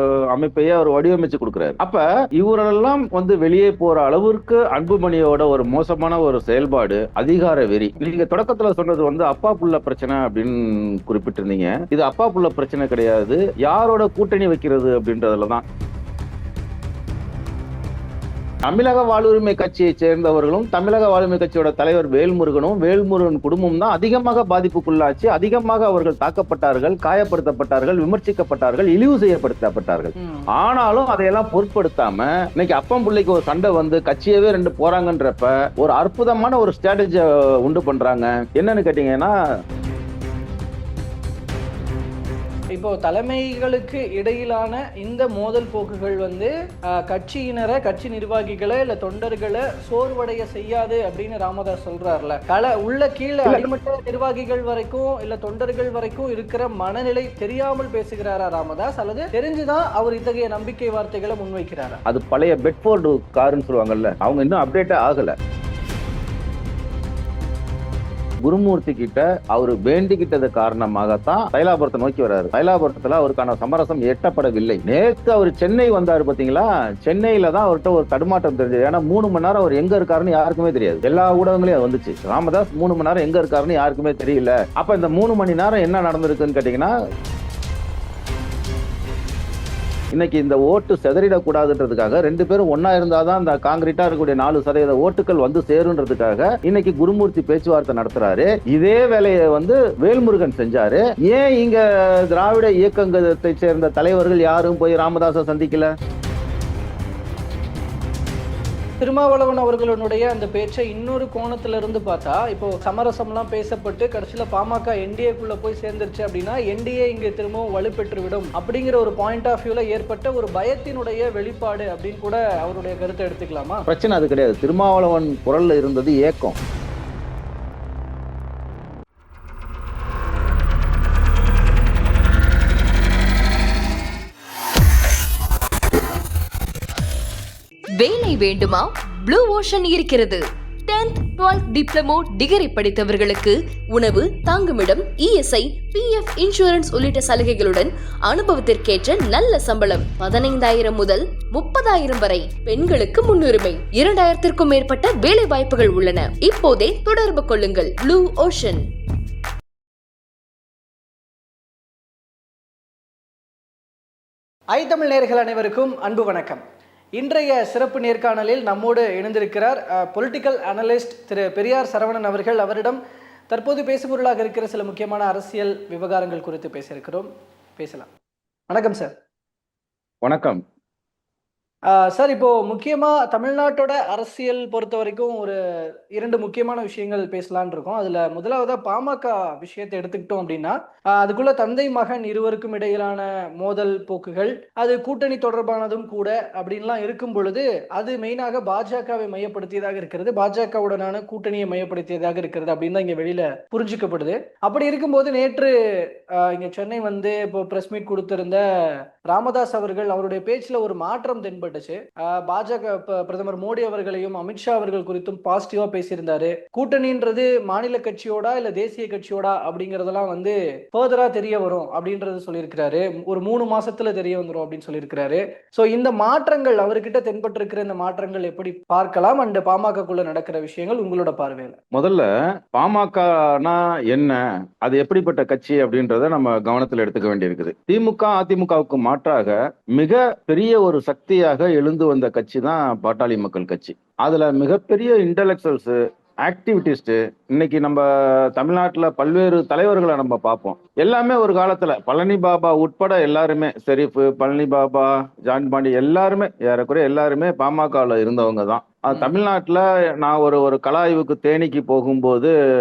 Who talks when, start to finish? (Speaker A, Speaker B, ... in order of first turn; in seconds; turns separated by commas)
Speaker A: 0.3-15.6, Speaker A: 18.6-39.3, Speaker B: 30.2-30.5, Speaker B: 42.7-46.5, Speaker B: 47.1-62.0, Speaker A: 62.1-65.4, Speaker A: 68.5-86.9, Speaker A: 90.1-105.9, Speaker B: 109.0-123.9, Speaker A: 123.9-126.6, Speaker C: 137.9-158.9, Speaker B: 164.7-166.6, Speaker B: 167.2-173.0, Speaker B: 173.5-178.1, Speaker B: 178.7-179.1, Speaker A: 180.2-180.6, Speaker B: 181.9-185.6, Speaker B: 186.1-205.7, Speaker B: 206.4-208.6, Speaker B: 209.3-231.8, Speaker A: 231.9-262.5